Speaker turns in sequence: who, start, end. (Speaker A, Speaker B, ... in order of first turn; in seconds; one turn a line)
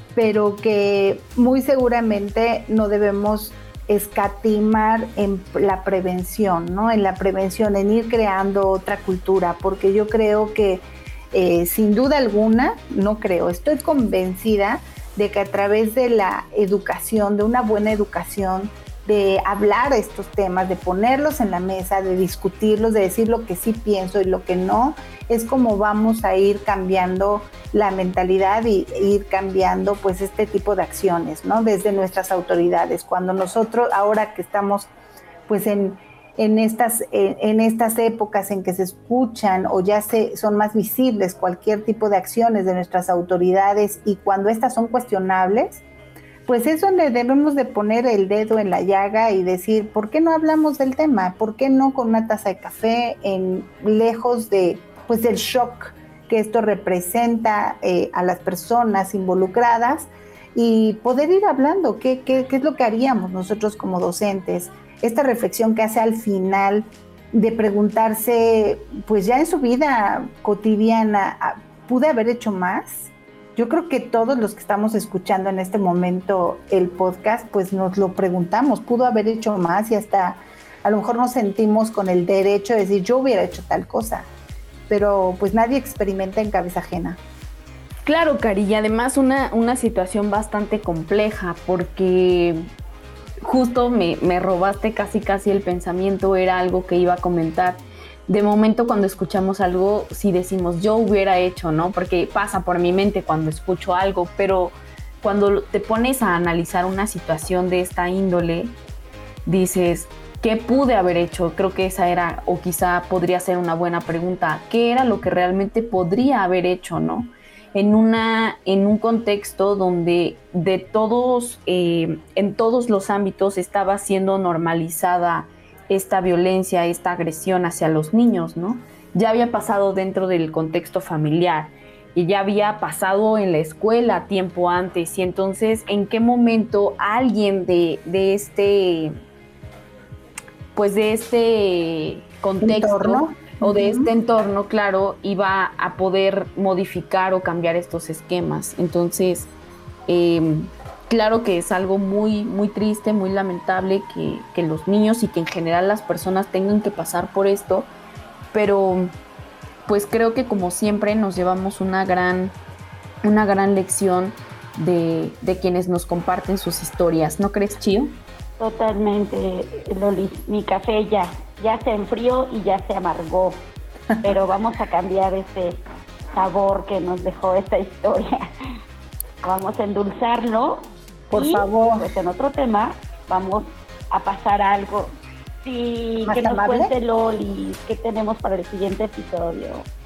Speaker A: 0.1-34.9
Speaker A: 35.5-45.8
Speaker A: 46.5-84.3
Speaker A: 84.9-87.2
Speaker B: 88.0-92.7
Speaker B: 93.4-108.8
Speaker B: 109.5-139.1
Speaker B: 140.8-149.5
Speaker A: 142.6-144.1
Speaker B: 150.1-157.9
Speaker B: 158.5-159.1
Speaker B: 159.9-162.6
Speaker B: 163.2-168.2
Speaker C: 168.6-173.7
Speaker C: 174.2-175.8
Speaker C: 176.3-178.4
Speaker C: 179.4-185.1
Speaker A: 181.3-182.1
Speaker C: 185.6-189.9
Speaker A: 186.2-186.9